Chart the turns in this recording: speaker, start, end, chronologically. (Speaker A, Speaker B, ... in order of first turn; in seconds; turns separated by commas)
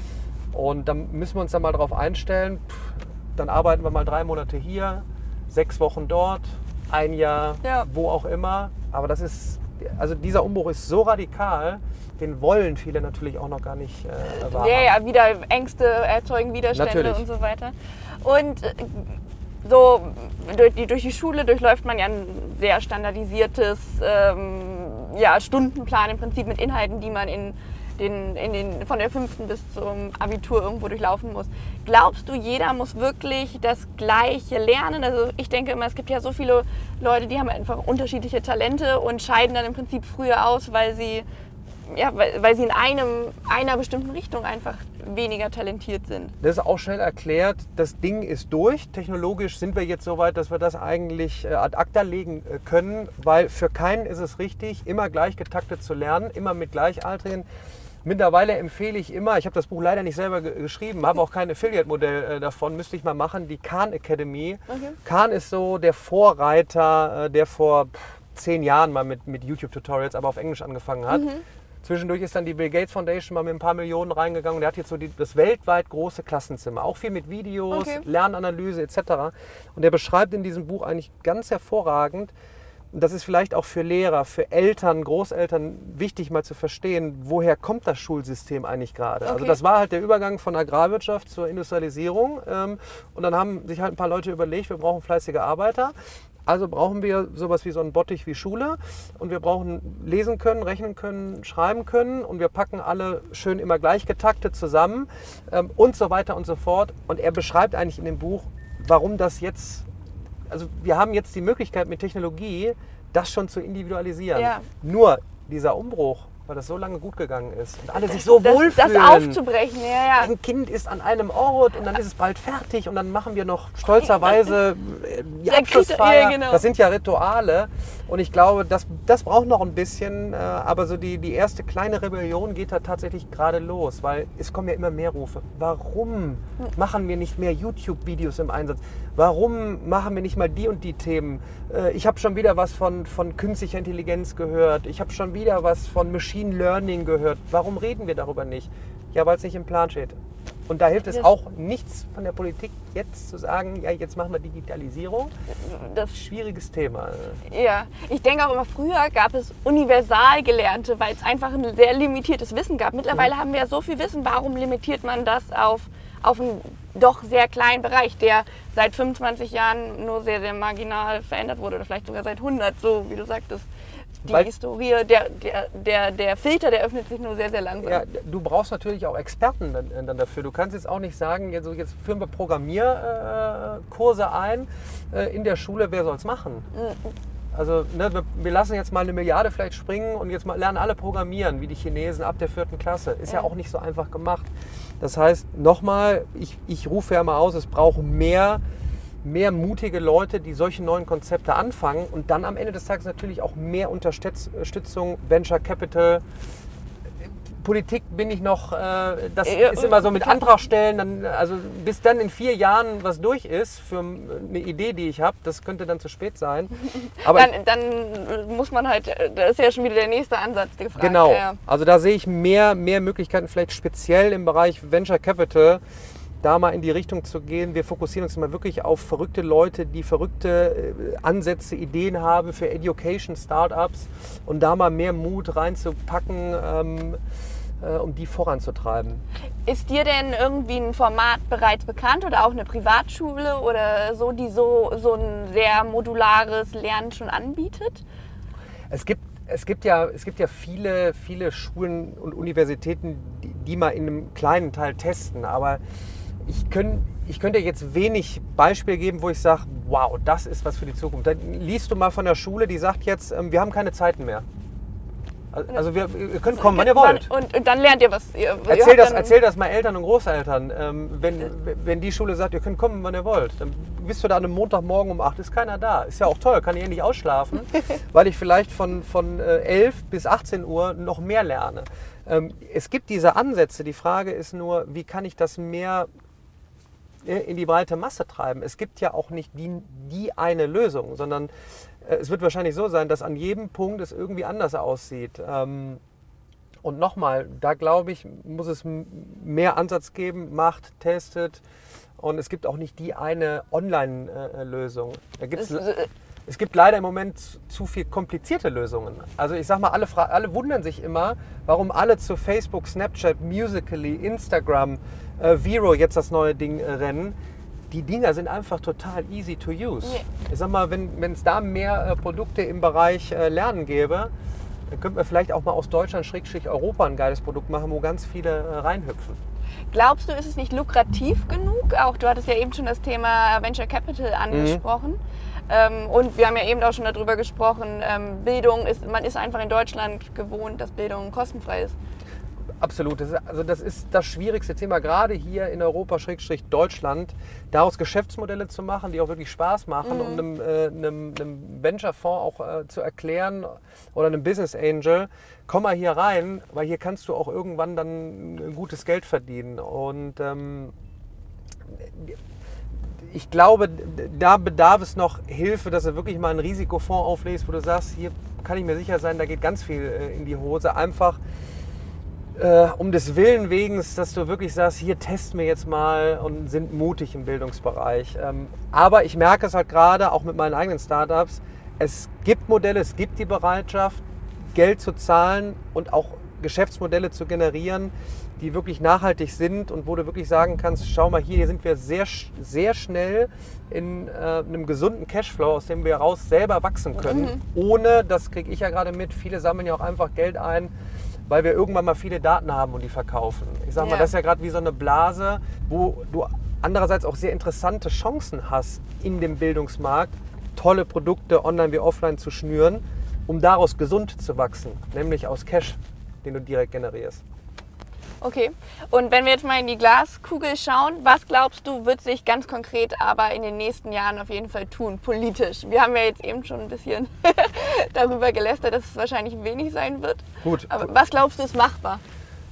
Speaker A: 0.5-14.9, Speaker B: 7.6-7.9, Speaker B: 14.3-41.2, Speaker A: 16.7-17.2, Speaker B: 41.9-46.3, Speaker A: 46.4-57.5, Speaker A: 58.0-82.3, Speaker B: 64.7-65.0, Speaker B: 71.1-71.4, Speaker B: 77.7-78.0, Speaker A: 82.9-95.9, Speaker B: 89.2-89.6, Speaker A: 96.5-109.9, Speaker A: 110.5-119.4, Speaker B: 114.3-114.7, Speaker B: 118.0-120.3, Speaker A: 120.1-150.2, Speaker B: 125.5-126.6, Speaker A: 150.7-155.3, Speaker B: 155.6-156.2, Speaker A: 156.1-157.4, Speaker B: 157.4-173.7, Speaker B: 174.2-178.0, Speaker A: 177.8-186.7, Speaker B: 186.7-187.1, Speaker A: 187.5-198.6, Speaker A: 199.2-206.2, Speaker A: 207.2-217.5, Speaker B: 209.4-210.4, Speaker B: 216.9-221.6, Speaker A: 221.0-225.8, Speaker A: 226.4-237.2, Speaker A: 237.8-239.2, Speaker B: 239.7-248.0, Speaker A: 248.9-255.8, Speaker A: 256.4-264.4, Speaker A: 265.5-267.3, Speaker B: 266.5-269.4, Speaker A: 268.7-286.1, Speaker A: 287.2-291.5, Speaker A: 292.0-296.0, Speaker A: 296.8-301.6, Speaker A: 302.2-305.9, Speaker B: 305.6-306.1, Speaker A: 306.4-317.3, Speaker A: 317.9-324.3, Speaker A: 324.9-329.4, Speaker B: 329.9-335.2, Speaker A: 334.5-334.8, Speaker B: 335.7-341.9, Speaker A: 342.8-360.9, Speaker B: 350.0-350.4, Speaker A: 361.9-362.4, Speaker A: 363.1-371.4, Speaker A: 372.6-400.9, Speaker B: 397.2-397.6, Speaker A: 401.5-417.4, Speaker B: 404.0-404.3, Speaker B: 418.4-432.2, Speaker A: 430.6-431.1